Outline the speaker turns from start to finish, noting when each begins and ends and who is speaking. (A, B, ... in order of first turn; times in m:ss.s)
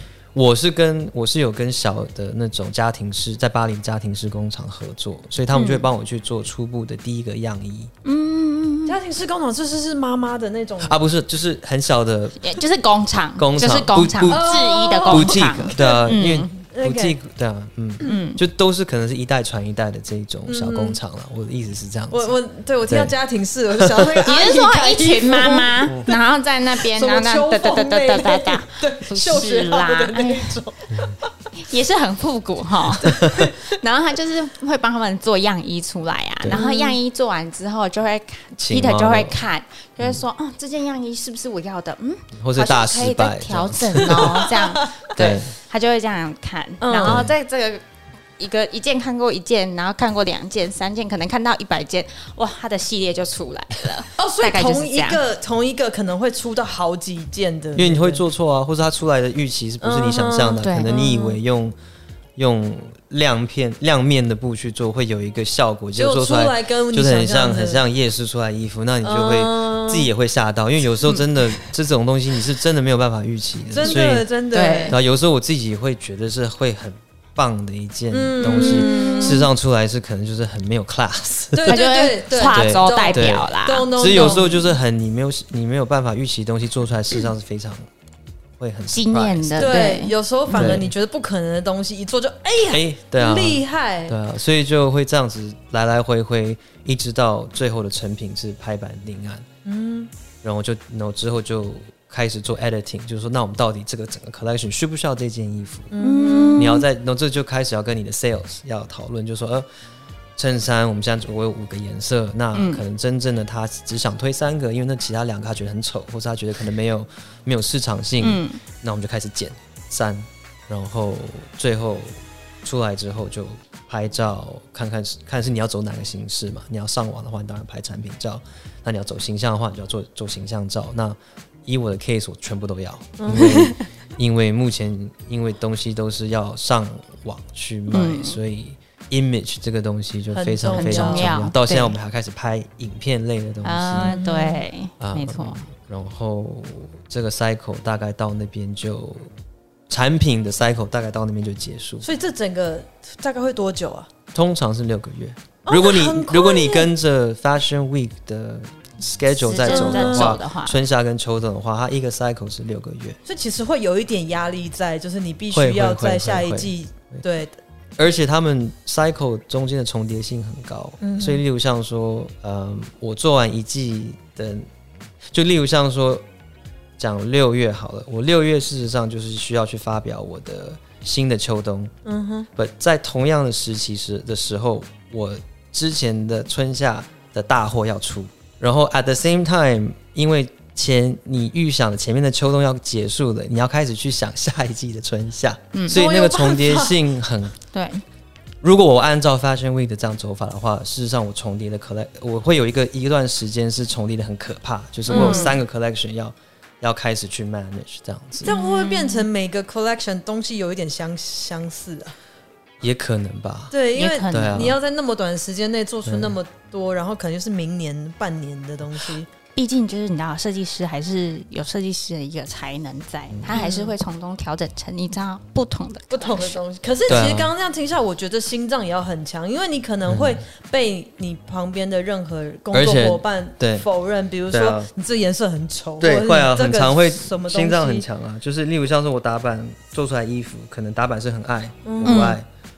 0:00.3-0:07.9 A
0:05.5-0:05.9 B
0:08.0-0:09.0 B
0:08.9-0:11.0 C
0:10.8-0:12.6 A
0:12.4-0:16.5 B
0:13.4-0:22.3 A
0:14.3-0:17.2 C
0:18.0-0:18.4 B
0:20.5-0:21.0 C
0:22.1-0:26.2 C
0:22.9-0:23.1 A
0:23.7-0:24.2 A
0:24.2-0:30.6 B
0:26.7-0:31.1 C
0:30.9-0:31.2 A
0:31.6-0:47.8 B
0:33.0-0:33.6 C
0:33.0-0:33.5 A
0:36.5-0:37.0 C
0:38.6-0:39.4 A
0:42.4-0:44.5 A
0:44.1-0:45.0 C
0:45.2-0:45.5 A
0:46.8-0:47.2 C
0:47.0-0:47.3 A
0:48.4-0:55.2 B
0:54.2-0:58.2 C
0:57.8-1:01.8 A
0:59.8-1:01.4 C
1:00.6-1:00.9 B
1:02.4-1:14.3 A
1:06.0-1:07.8 C
1:09.0-1:10.1 C
1:13.7-1:15.0 C
1:14.5-1:15.0 B
1:14.9-1:21.8 A
1:18.1-1:19.5 C
1:18.4-1:19.4 B
1:21.5-1:24.7 C
1:21.7-1:24.5 B
1:22.4-1:27.8 A
1:28.6-1:29.8 A
1:28.9-1:30.8 B
1:29.6-1:34.2 C
1:30.6-1:30.9 A
1:32.7-1:39.5 A
1:39.6-1:40.1 C
1:40.4-1:45.9 A
1:45.9-1:46.8 C
1:46.0-1:46.8 B
1:46.6-1:49.7 A
1:50.4-2:24.2 A
1:52.5-1:52.8 B
1:58.2-1:58.6 B
2:13.2-2:13.7 C
2:13.3-2:13.8 B
2:17.9-2:18.4 B
2:20.3-2:21.4 C
2:20.7-2:21.9 B
2:23.6-2:25.6 B
2:24.0-2:24.6 C
2:25.0-2:29.3 A
2:29.9-2:32.1 A
2:32.0-2:34.1 C
2:34.3-2:43.2 A
2:35.7-2:36.9 C
2:39.4-2:40.8 B
2:39.6-2:40.4 C
2:43.3-2:47.6 C
2:45.5-2:47.2 A
2:48.0-2:54.7 A
2:51.0-2:51.4 C
2:55.3-2:56.2 A
2:57.0-3:01.9 A
3:02.0-3:02.5 C
3:02.6-3:17.6 A
3:15.7-3:16.0 B
3:15.9-3:17.0 C
3:17.7-3:18.0 B
3:18.6-3:28.6 A
3:25.1-3:25.6 C
3:25.1-3:25.5 B
3:28.4-3:32.2 C
3:28.5-3:29.3 B
3:32.8-3:33.7 A
3:33.7-3:39.3 C
3:33.9-3:34.8 B
3:34.3-3:34.8 A
3:36.0-3:36.4 A
3:39.6-3:46.6 B
3:43.3-3:43.6 A
3:43.5-3:43.9 C
3:46.1-3:58.1 C
3:47.1-3:47.5 A
3:50.1-3:50.4 A
3:52.7-3:53.9 A
3:54.5-3:54.9 A
3:56.0-4:02.5 A
4:01.8-4:02.3 C
4:02.0-4:02.4 B